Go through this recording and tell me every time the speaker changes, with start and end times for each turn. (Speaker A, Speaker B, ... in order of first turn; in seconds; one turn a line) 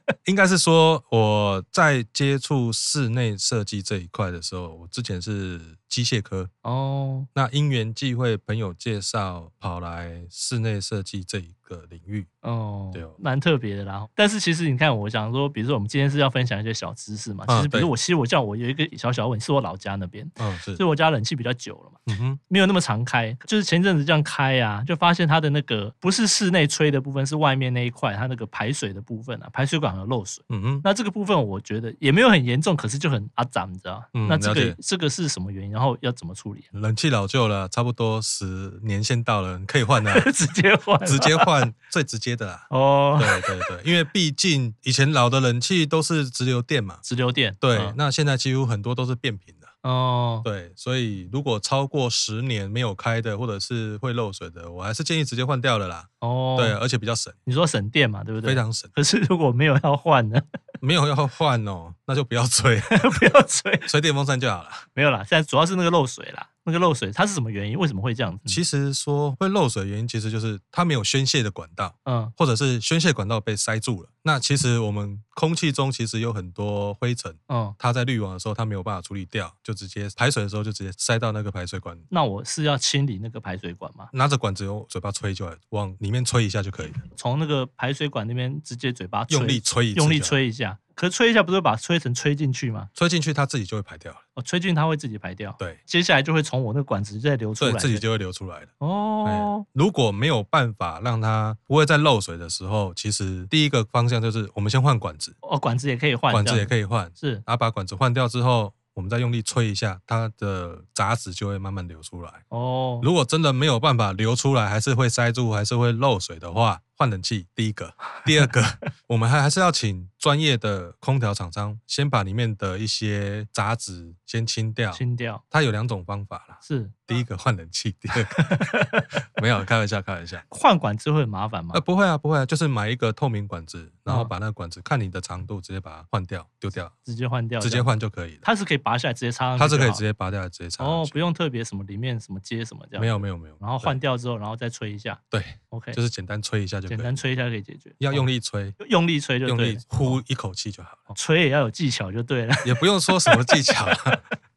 Speaker A: 0.2-6.5
Speaker B: 6.6-7.3
Speaker A: 7.3-12.3
Speaker B: 12.4-36.7
Speaker A: 17.5-17.9
Speaker A: 20.4-20.8
Speaker A: 22.1-22.4
Speaker A: 30.5-30.8
Speaker A: 34.1-34.8
Speaker A: 36.7-40.3
Speaker B: 40.0-41.5
Speaker A: 41.0-47.0
Speaker B: 42.7-43.6
Speaker B: 47.0-48.0
Speaker A: 47.6-49.7
Speaker B: 49.8-50.5
Speaker A: 50.4-57.4
Speaker B: 56.2-56.8
Speaker B: 57.5-60.4
Speaker A: 58.4-58.9
Speaker A: 60.8-64.8
Speaker B: 62.9-63.9
Speaker B: 64.9-68.6
Speaker A: 68.5-82.0
Speaker B: 72.0-72.3
Speaker B: 77.5-77.8
Speaker B: 82.1-84.1
Speaker A: 84.1-87.0
Speaker B: 87.1-92.9
Speaker A: 89.3-90.4
Speaker A: 93.0-94.2
Speaker B: 94.3-98.0
Speaker A: 97.6-98.7
Speaker B: 98.8-99.6
Speaker A: 99.2-105.3
Speaker B: 105.4-107.4
Speaker A: 106.3-112.4
Speaker B: 112.5-113.1
Speaker A: 113.0-130.4
Speaker B: 124.9-125.4
Speaker B: 126.6-127.2
Speaker B: 128.3-129.1
Speaker B: 130.5-131.8
Speaker A: 131.7-136.9
Speaker B: 137.0-137.9
Speaker A: 137.6-138.4
Speaker B: 138.4-140.0
Speaker A: 139.6-141.2
Speaker B: 140.8-145.2
Speaker A: 143.0-144.0
Speaker A: 145.3-147.2
Speaker B: 145.7-146.0
Speaker B: 146.9-150.2
Speaker A: 148.0-148.8
Speaker A: 149.4-151.1
Speaker B: 151.1-153.6
Speaker A: 152.6-154.2